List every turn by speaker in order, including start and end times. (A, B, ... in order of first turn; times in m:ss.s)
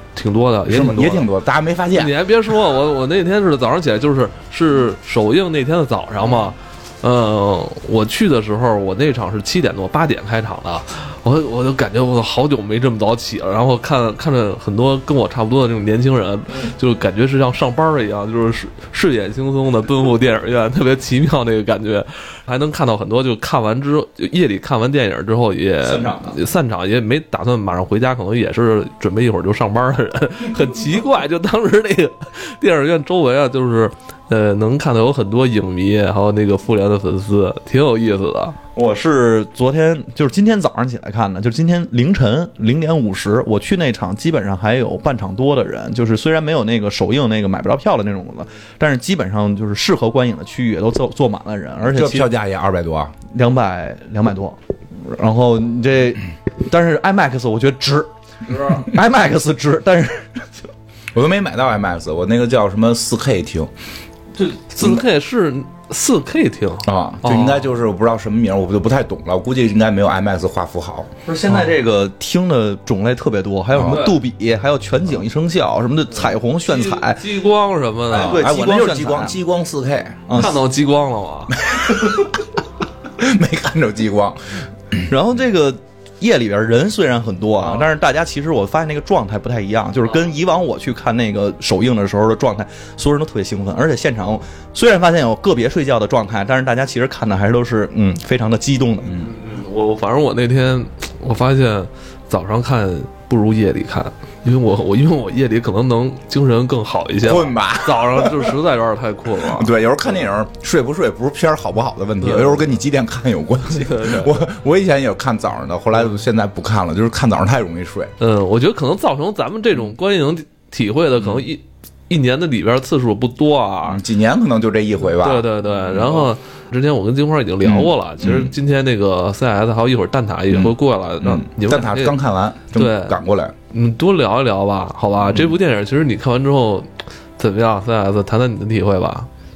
0:00.2-0:01.2 A
0:00.7-0:02.1 B
0:01.9-0:38.6 A
0:25.8-0:26.4 C
0:38.8-0:52.3 C
0:51.8-0:53.1 B
0:53.3-1:00.4 C
1:01.1-1:03.7 B
1:04.4-1:05.0 C
1:04.7-1:07.6 A
1:06.8-1:11.1 B
1:11.2-1:17.2 C
1:13.8-1:14.0 B
1:13.8-1:14.2 A
1:16.6-1:18.4 A
1:18.1-1:19.4 C
1:18.1-1:20.4 B
1:20.3-1:20.6 C
1:20.3-1:21.6 A
1:21.6-1:22.4 B
1:23.2-1:25.0 B
1:25.1-1:39.2 C
1:39.1-1:49.7 A
1:47.2-1:48.6 B
1:49.3-1:58.1 B
1:52.2-1:52.6 A
1:53.9-1:54.4 A
1:58.2-2:04.0 A
2:03.8-2:06.3 B
2:05.2-2:12.2 A
2:07.6-2:08.5 B
2:10.5-2:13.5 B
2:12.7-2:13.2 A
2:13.7-2:19.3 A